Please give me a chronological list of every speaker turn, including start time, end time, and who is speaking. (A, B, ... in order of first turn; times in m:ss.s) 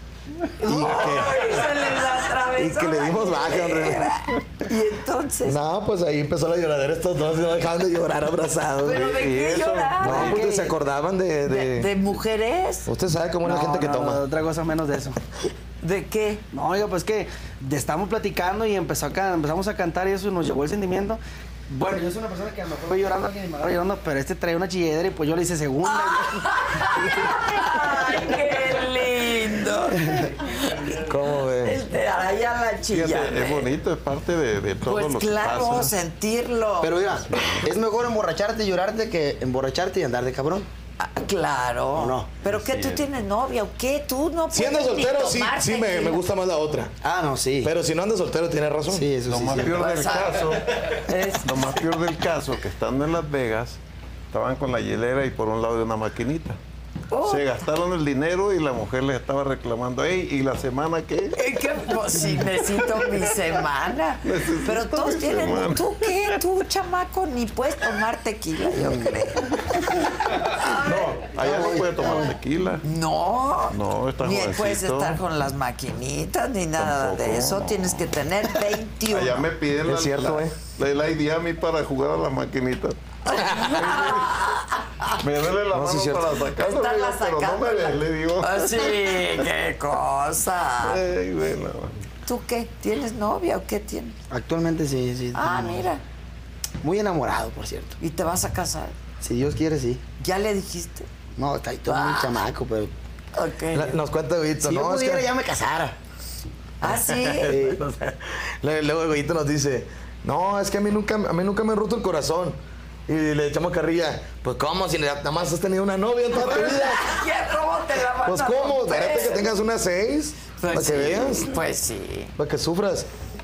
0:00.6-0:01.9 A
0:00.6-0:05.6 B
0:02.5-0:04.2 A
0:05.4-0:09.0 A
0:08.8-0:10.8 B
0:08.9-0:10.4 C
0:10.0-0:11.9 A
0:11.5-0:12.9 B
0:12.9-0:14.2 A
0:13.4-0:15.2 D
0:15.8-0:16.4 B
0:16.5-0:28.4 D
0:25.8-0:33.7 B
0:31.0-0:31.8 A
0:32.9-0:35.9 C
0:34.9-0:37.1 B
0:36.8-0:40.7 E
0:37.3-0:37.6 C
0:41.0-0:46.2 B
0:42.0-0:42.4 E
0:42.5-0:43.1 C
0:44.5-0:46.9 A
0:47.0-0:47.7 E
0:47.6-0:49.1 A
0:48.9-0:49.8 E
0:49.3-0:53.8 C
0:49.6-0:51.8 B
0:54.3-0:56.6 C
0:57.1-0:57.6 B
0:57.2-1:01.4 C
1:01.4-1:09.7 B
1:04.2-1:06.4 C
1:08.8-1:09.1 E
1:10.4-1:12.2 B
1:10.9-1:11.8 A
1:10.9-1:12.8 C
1:12.8-1:19.5 B
1:13.7-1:15.2 C
1:16.8-1:18.1 C
1:19.1-1:24.4 C
1:19.8-1:20.6 A
1:23.3-1:25.2 B
1:23.4-1:23.7 A
1:25.2-1:29.3 C
1:25.7-1:26.3 A
1:26.6-1:31.0 B
1:30.8-1:31.9 C
1:32.3-1:34.2 B
1:34.3-1:35.9 E
1:35.3-1:36.0 B
1:36.8-1:38.0 E
1:38.0-1:39.0 B
1:39.2-1:40.0 E
1:40.2-1:41.1 B
1:41.4-1:42.9 E
1:41.9-1:42.5 B
1:43.4-1:44.0 B
1:43.7-1:45.3 A
1:44.6-1:46.0 E
1:46.8-1:47.8 B
1:46.9-1:57.2 A
1:47.6-1:47.8 E
1:56.3-1:59.5 B
1:58.2-2:01.6 A
2:00.6-2:02.4 B
2:02.4-2:03.1 A